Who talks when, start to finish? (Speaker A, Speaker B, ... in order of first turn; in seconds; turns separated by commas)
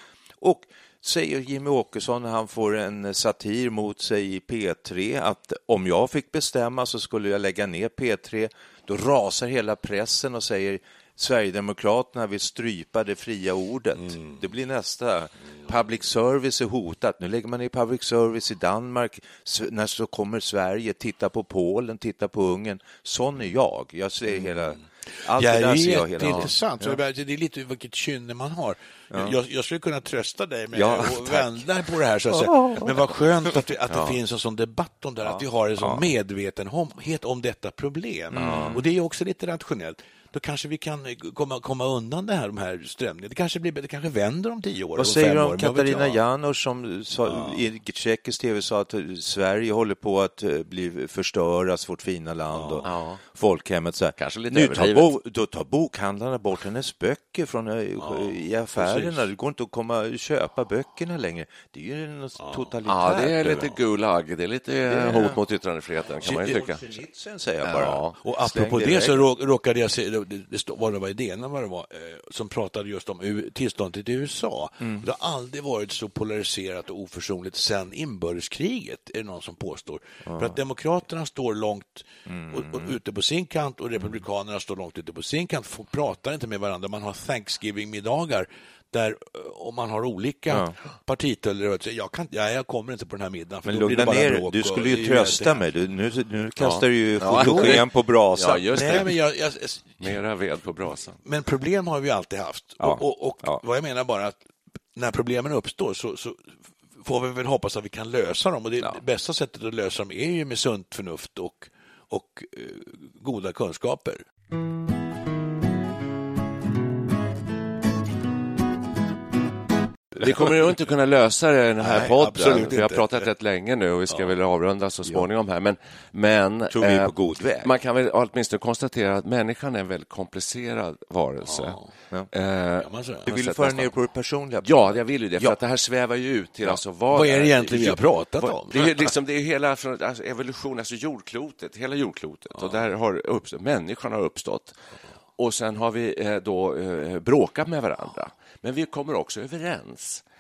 Speaker A: 0.4-27.0, Speaker B: 25.3-46.2, Speaker A: 30.7-31.7, Speaker A: 32.3-33.1, Speaker C: 33.9-34.2, Speaker A: 35.3-36.0, Speaker A: 38.3-38.8, Speaker C: 38.4-38.8, Speaker A: 45.0-63.8, Speaker B: 47.3-47.6, Speaker B: 52.5-52.9, Speaker C: 52.8-53.2, Speaker C: 54.2-55.1, Speaker B: 58.0-59.2, Speaker B: 62.4-62.7, Speaker C: 62.9-66.8, Speaker A: 64.9-65.4, Speaker A: 66.2-69.3, Speaker C: 67.6-68.2, Speaker B: 68.2-95.6, Speaker A: 80.3-80.6, Speaker A: 82.3-83.0, Speaker A: 93.7-99.1, Speaker C: 96.6-99.2, Speaker B: 97.2-97.8, Speaker B: 98.7-100.2, Speaker C: 100.0-101.2, Speaker B: 101.2-104.4, Speaker A: 102.8-103.6, Speaker B: 105.0-114.2, Speaker C: 120.2-131.8, Speaker B: 121.8-123.2, Speaker A: 121.9-122.6, Speaker B: 124.1-124.4, Speaker A: 126.7-127.7, Speaker B: 131.4-131.9, Speaker C: 132.3-133.9, Speaker B: 132.8-133.3, Speaker A: 133.3-135.6, Speaker C: 134.6-144.8, Speaker B: 137.1-139.1, Speaker C: 145.4-150.2